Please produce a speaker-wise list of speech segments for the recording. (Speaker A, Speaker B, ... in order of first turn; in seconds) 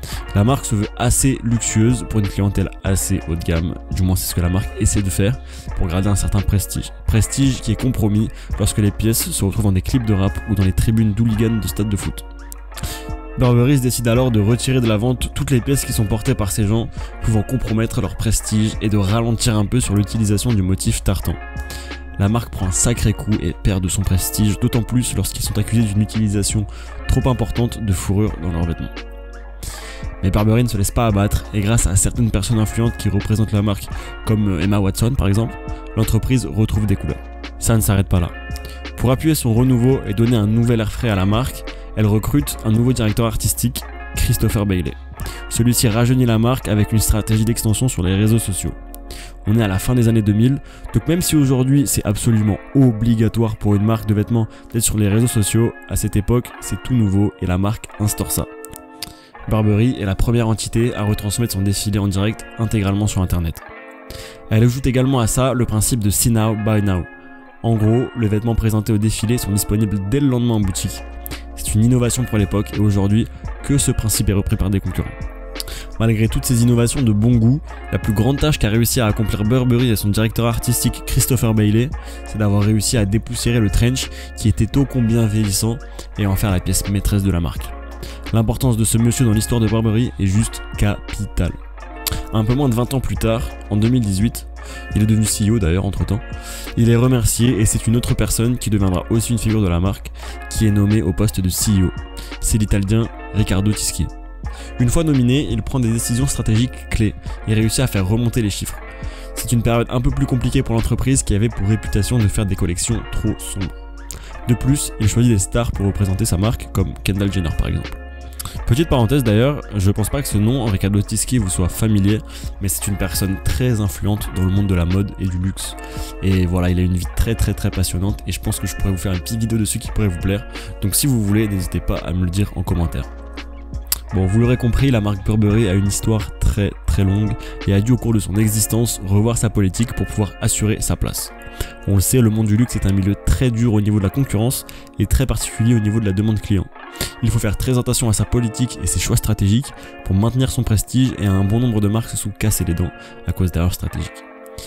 Speaker A: 0.3-12.3, 13.4-21.4, 22.2-28.9, 30.2-38.4, 39.0-48.8, 49.5-58.5, 59.5-63.7, 64.5-67.1, 67.6-75.2, 76.0-87.8, 88.3-91.6, 92.3-96.2, 96.8-104.1, 104.8-108.8, 109.3-113.8, 114.5-118.0, 118.7-133.1, 134.1-141.3, 141.8-146.7, 147.2-154.2